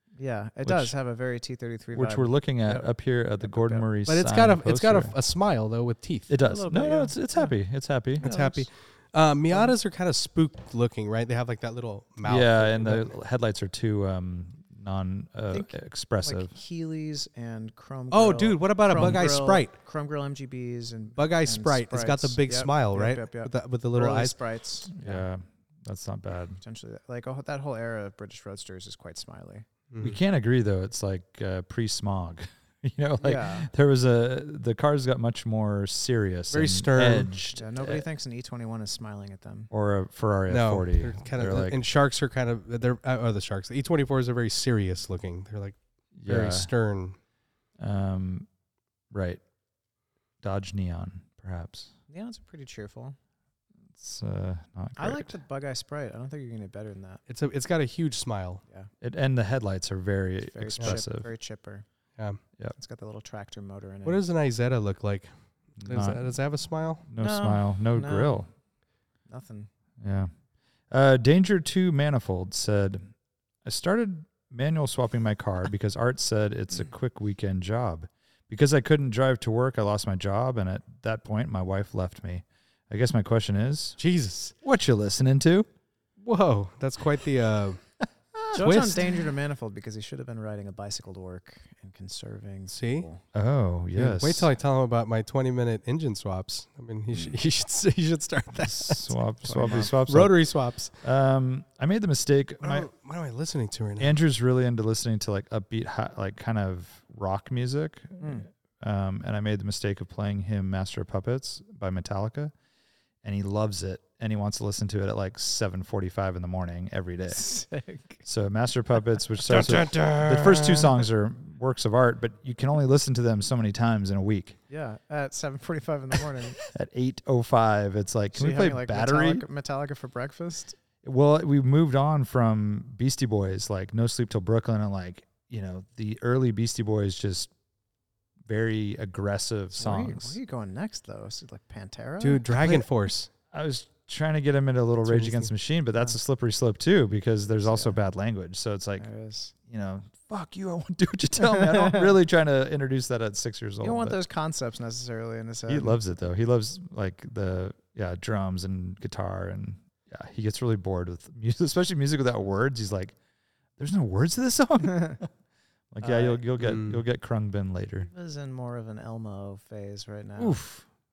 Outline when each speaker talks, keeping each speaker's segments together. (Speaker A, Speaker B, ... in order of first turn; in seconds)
Speaker A: 0.2-2.9, 3.4-3.9, 6.4-7.5, 8.2-8.7, 9.5-9.8, 15.5-24.9, 26.6-29.6, 33.2-33.7, 37.5-39.7, 52.1-53.2, 55.0-57.2, 60.4-61.9, 62.7-64.2, 67.2-68.4, 69.3-69.7, 88.5-93.2, 99.4-99.9, 108.2-108.5, 117.3-118.2, 124.7-126.6, 128.3-130.8, 139.7-142.4, 147.5-148.0, 149.0-149.5, 151.4-152.1, 153.8-156.0, 166.0-166.4, 168.1-170.6
Speaker B: 0.6-0.9, 1.9-5.1, 6.3-8.3, 12.2-16.5, 18.9-19.2, 24.9-26.6, 30.0-38.0, 39.7-41.8, 46.2-46.7, 47.8-48.5, 49.1-49.4, 50.4-51.9, 53.9-55.3, 59.0-61.3, 65.8-66.3, 67.0-68.5, 70.0-70.3, 70.9-73.1, 73.6-84.0, 84.6-85.7, 88.3-88.6, 93.3-94.5, 98.6-102.9, 104.0-112.5, 113.2-117.5, 118.2-124.6, 126.6-129.4, 131.0-137.5, 138.4-140.4, 142.5-142.9, 143.5-149.1, 149.7-154.2, 155.7-163.1, 163.8-165.3, 165.9-168.1
Speaker C: 4.0-6.3, 8.2-13.1, 18.1-19.7, 21.1-24.4, 29.9-30.2, 36.5-37.3, 40.5-47.1, 57.3-58.6, 64.0-65.3, 65.8-67.0, 84.0-84.5, 86.2-87.8, 88.5-89.1, 92.7-93.1, 93.9-99.2, 99.8-101.0, 102.6-104.1, 119.5-121.0, 142.2-143.3, 145.1-145.5, 166.6-167.0, 170.4-170.8